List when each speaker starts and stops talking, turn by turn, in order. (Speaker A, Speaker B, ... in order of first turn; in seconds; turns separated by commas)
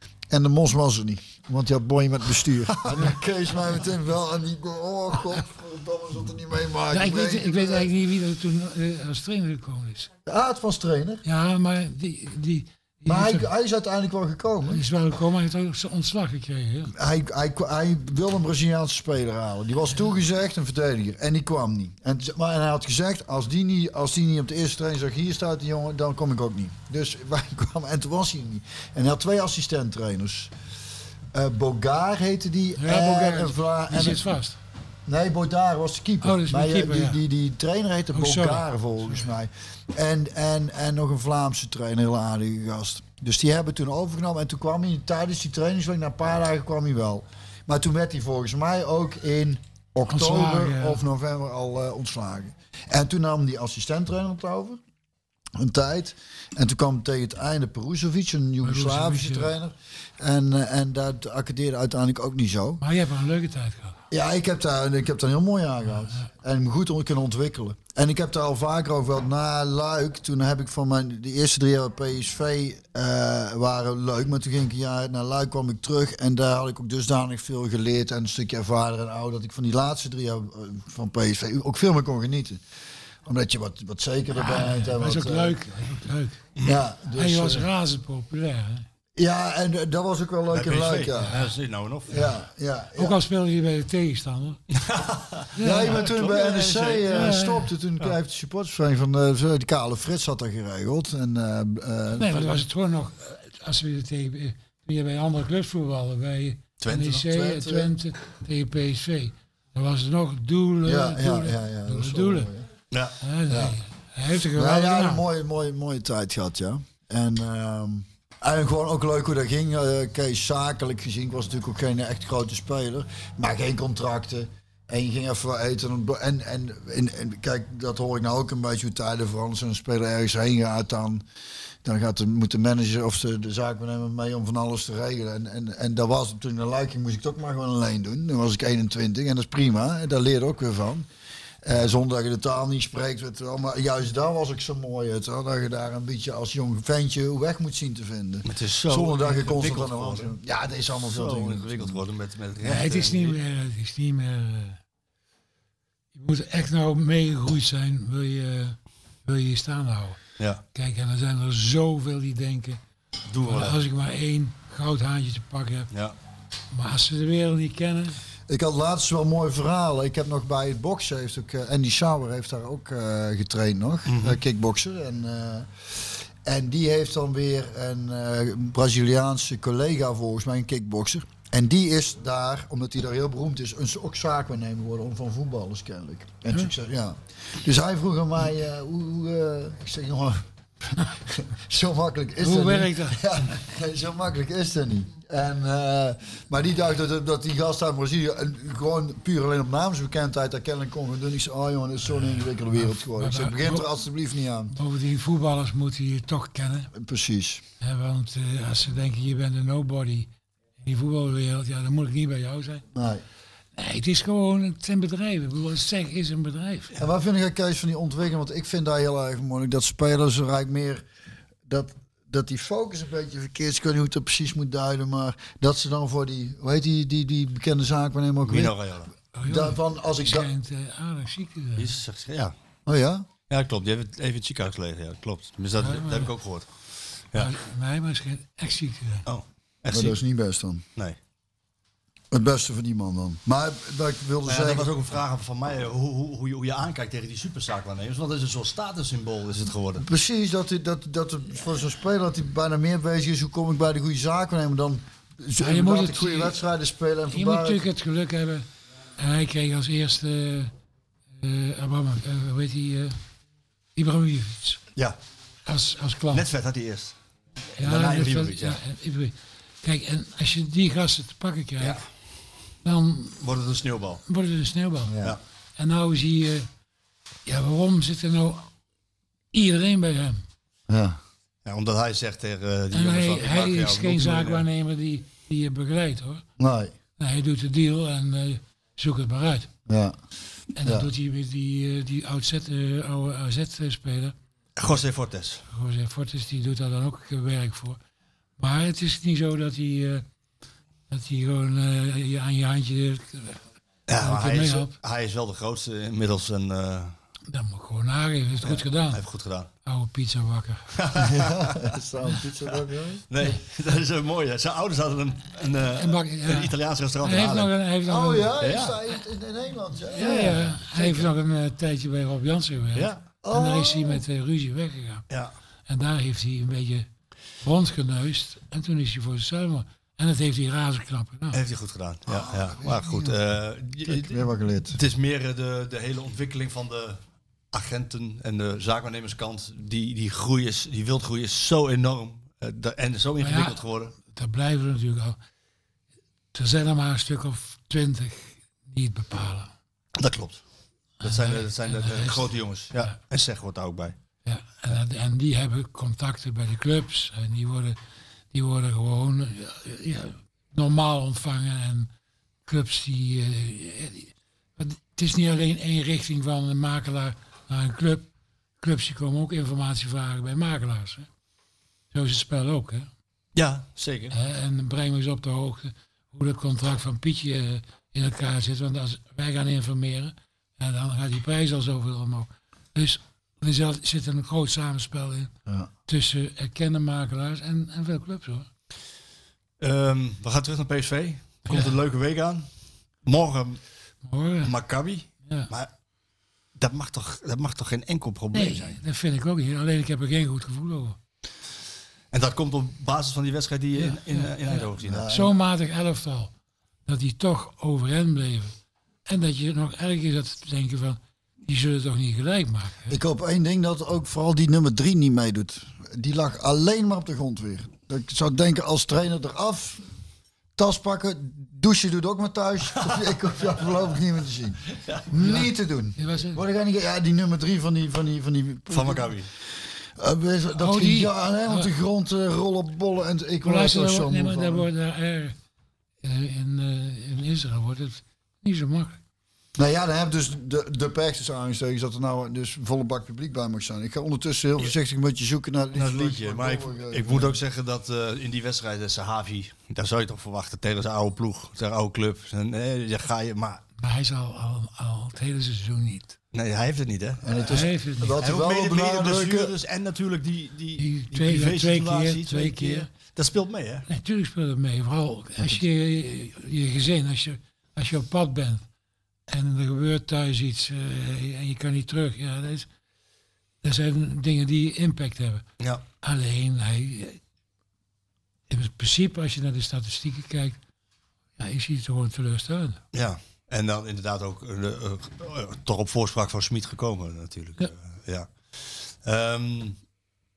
Speaker A: 0.3-7.9, Speaker B: 6.9-10.1, Speaker A: 10.3-11.2, Speaker B: 11.2-13.5, Speaker A: 13.1-14.8, Speaker B: 14.7-16.9, Speaker A: 16.9-30.5, Speaker A: 31.3-34.3, Speaker B: 32.8-34.6, Speaker A: 35.1-54.8, Speaker B: 36.2-37.2, Speaker B: 38.1-39.3, Speaker B: 50.1-51.0, Speaker A: 55.6-62.8, Speaker B: 58.6-59.5, Speaker B: 62.8-64.0, Speaker A: 64.1-82.6, Speaker A: 83.3-85.6, Speaker B: 84.3-86.5, Speaker A: 86.6-87.7, Speaker B: 87.1-88.9, Speaker A: 89.2-91.4, Speaker C: 90.5-92.3, Speaker A: 92.1-93.2, Speaker B: 93.0-94.6, Speaker C: 94.7-97.3, Speaker B: 95.6-96.2, Speaker A: 95.6-102.6, Speaker B: 97.0-97.7, Speaker B: 102.2-112.5, Speaker C: 106.8-107.2, Speaker A: 107.3-107.9, Speaker A: 110.8-112.7, Speaker B: 113.2-115.2, Speaker A: 113.5-113.8, Speaker A: 114.5-131.2, Speaker A: 131.8-141.1, Speaker A: 141.6-152.0, Speaker C: 148.5-150.3, Speaker C: 151.1-153.4, Speaker B: 152.6-154.8, Speaker B: 156.1-160.2, Speaker B: 160.7-162.8, Speaker C: 163.3-163.8, Speaker B: 163.5-165.9, Speaker B: 166.7-168.2, Speaker A: 168.5-190.4, Speaker C: 174.1-174.4, Speaker A: 191.0-204.7, Speaker B: 192.4-193.2, Speaker B: 202.7-203.9, Speaker B: 204.7-206.9, Speaker A: 206.9-207.6, Speaker B: 207.8-212.9, Speaker A: 212.9-213.2, Speaker B: 213.8-216.9, Speaker A: 217.0-221.1, Speaker A: 221.7-228.7, Speaker C: 228.4-229.1, Speaker B: 229.3-231.9, Speaker A: 229.5-230.5, Speaker C: 231.8-232.5, Speaker A: 232.9-233.3, Speaker C: 233.5-236.7, Speaker B: 235.8-236.3, Speaker B: 237.3-239.3, Speaker C: 239.3-240.2, Speaker A: 239.9-240.8, Speaker A: 242.3-244.9, Speaker C: 244.4-250.0, Speaker A: 250.0-257.9, Speaker B: 255.6-256.6, Speaker B: 257.3-260.7, Speaker B: 261.4-263.2, Speaker B: 264.0-264.8, Speaker B: 265.7-266.5, Speaker C: 266.3-267.2, Speaker B: 267.8-272.0, Speaker C: 267.8-268.8, Speaker B: 272.8-273.4, Speaker C: 273.4-274.2, Speaker B: 274.3-275.1, Speaker A: 275.1-275.4, Speaker B: 275.8-276.7, Speaker B: 277.5-278.7, Speaker B: 279.5-280.4, Speaker A: 280.9-281.2, Speaker C: 281.6-284.7, Speaker B: 282.9-286.4, Speaker A: 286.6-286.9, Speaker B: 287.2-289.7, Speaker A: 289.9-290.2, Speaker B: 290.8-294.4, Speaker A: 290.8-291.1, Speaker C: 294.8-295.6, Speaker B: 295.7-298.0, Speaker B: 298.6-300.2, Speaker B: 301.1-303.6, Speaker C: 304.1-307.2, Speaker B: 304.2-304.9, Speaker B: 307.5-309.2, Speaker C: 308.6-309.7, Speaker B: 309.9-311.3, Speaker C: 310.9-311.9, Speaker A: 311.2-313.2, Speaker C: 313.3-317.7, Speaker B: 315.9-318.6, Speaker A: 318.1-321.3, Speaker C: 318.6-319.0, Speaker B: 320.1-325.3, Speaker C: 322.9-323.2, Speaker A: 323.4-324.2, Speaker B: 325.9-327.1, Speaker B: 327.6-331.6, Speaker C: 331.5-337.2, Speaker A: 332.3-333.4, Speaker A: 334.0-335.0, Speaker C: 337.7-344.1, Speaker B: 343.4-345.4, Speaker B: 346.5-349.7, Speaker C: 350.2-350.6, Speaker B: 351.2-353.1, Speaker C: 351.2-354.2, Speaker B: 354.4-358.0, Speaker B: 358.5-362.1, Speaker B: 362.7-371.3, Speaker B: 372.1-373.1, Speaker C: 373.6-374.4, Speaker B: 374.3-385.5, Speaker B: 386.1-388.7, Speaker C: 389.8-392.7, Speaker B: 391.7-391.9, Speaker C: 393.2-393.8, Speaker B: 394.2-394.7, Speaker C: 394.6-395.9, Speaker C: 396.8-399.0, Speaker B: 398.5-401.2, Speaker C: 402.3-405.3, Speaker B: 404.0-406.5, Speaker A: 405.0-405.6, Speaker B: 407.1-413.2, Speaker A: 413.1-420.0, Speaker A: 420.8-429.4, Speaker C: 423.0-423.3, Speaker C: 425.0-425.3, Speaker B: 425.4-426.6, Speaker C: 428.9-429.5, Speaker A: 430.2-434.9, Speaker B: 430.7-431.9, Speaker B: 433.6-435.6, Speaker B: 436.2-439.2, Speaker A: 439.8-447.6, Speaker C: 445.9-453.8, Speaker B: 454.0-456.4, Speaker C: 456.5-457.8, Speaker A: 457.4-459.7, Speaker B: 457.6-458.4, Speaker C: 458.4-464.1, Speaker B: 461.0-463.1, Speaker B: 464.1-468.8, Speaker B: 469.5-472.9, Speaker B: 473.8-475.6, Speaker B: 476.2-477.4, Speaker B: 478.7-480.8, Speaker B: 481.6-483.0, Speaker C: 483.1-490.0